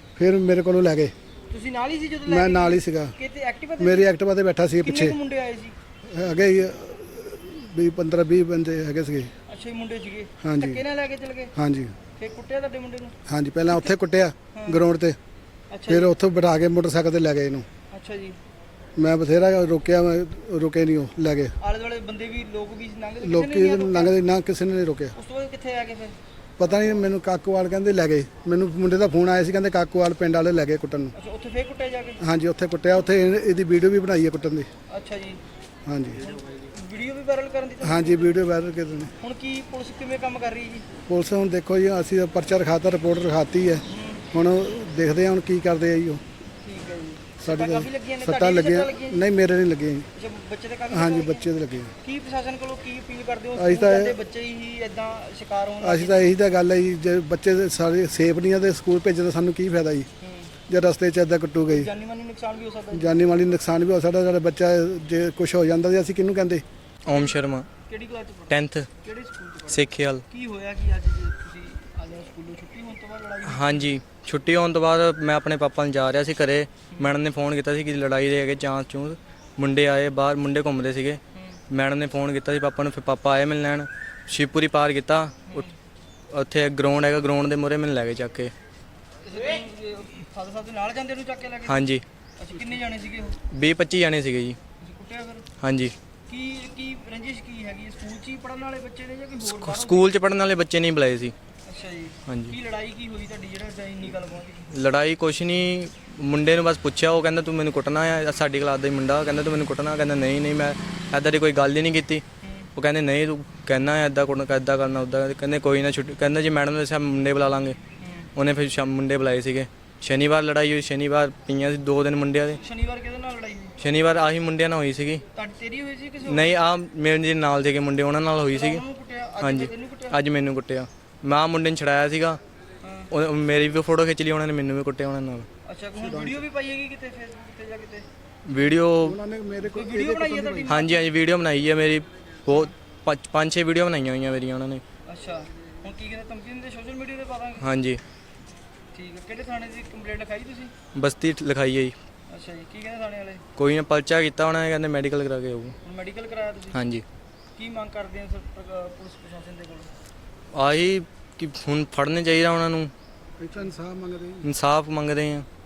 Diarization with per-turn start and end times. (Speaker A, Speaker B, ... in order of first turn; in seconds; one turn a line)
Speaker A: 0.2-1.1
Speaker B: 1.5-4.1
Speaker A: 2.3-3.2
Speaker A: 3.8-5.2
Speaker B: 4.8-5.8
Speaker A: 6.1-9.3
Speaker B: 9.5-11.5
Speaker A: 10.4-10.8
Speaker A: 11.6-12.0
Speaker B: 12.2-13.2
Speaker A: 13.3-15.2
Speaker B: 14.5-14.8
Speaker B: 15.7-16.1
Speaker A: 15.9-17.7
Speaker B: 17.9-18.4
Speaker A: 19.0-21.6
Speaker B: 21.6-24.1
Speaker A: 23.2-25.1
Speaker B: 25.2-26.2
Speaker A: 26.6-31.1
Speaker B: 31.2-32.2
Speaker A: 32.2-34.7
Speaker B: 34.9-35.4
Speaker A: 35.9-36.2
Speaker B: 36.2-38.4
Speaker A: 37.8-39.1
Speaker B: 39.2-40.9
Speaker A: 41.1-46.2
Speaker B: 43.9-44.3
Speaker B: 46.6-49.3
Speaker A: 47.4-50.1
Speaker B: 50.1-51.5
Speaker A: 50.9-51.9
Speaker B: 52.0-56.3
Speaker A: 53.5-54.2
Speaker A: 55.8-60.1
Speaker B: 60.2-60.5
Speaker A: 60.7-61.9
Speaker B: 61.7-63.3
Speaker A: 62.9-66.6
Speaker C: 67.1-67.7
Speaker B: 67.1-73.9
Speaker C: 68.5-68.9
Speaker C: 69.7-70.2
Speaker C: 73.5-85.6
Speaker B: 81.3-81.6
Speaker C: 86.3-88.5
Speaker B: 89.2-91.9
Speaker C: 91.7-92.0
Speaker B: 92.4-93.4
Speaker C: 93.5-94.6
Speaker B: 94.8-95.5
Speaker C: 95.6-96.0
Speaker B: 96.3-100.2
Speaker C: 99.5-101.3
Speaker B: 101.7-104.7
Speaker C: 102.3-102.6
Speaker C: 104.7-112.2
Speaker B: 112.4-112.7
Speaker C: 112.8-117.8
Speaker B: 118.0-118.3
Speaker C: 118.4-122.6
Speaker B: 122.6-123.8
Speaker C: 123.8-125.2
Speaker B: 125.3-126.7
Speaker C: 126.3-128.8
Speaker B: 128.5-130.2
Speaker C: 129.4-132.4
Speaker B: 132.8-133.1
Speaker C: 133.1-135.5
Speaker B: 135.7-138.1
Speaker A: 136.0-136.4
Speaker C: 138.4-139.2
Speaker A: 139.0-140.8
Speaker B: 139.6-141.2
Speaker C: 140.7-144.8
Speaker B: 145.1-147.7
Speaker C: 147.6-148.0
Speaker B: 148.9-150.7
Speaker C: 150.9-151.9
Speaker B: 152.3-153.4
Speaker C: 153.6-155.8
Speaker B: 155.8-156.8
Speaker C: 156.7-157.1
Speaker B: 157.6-159.9
Speaker C: 160.5-162.9
Speaker A: 163.4-164.5
Speaker C: 164.4-165.5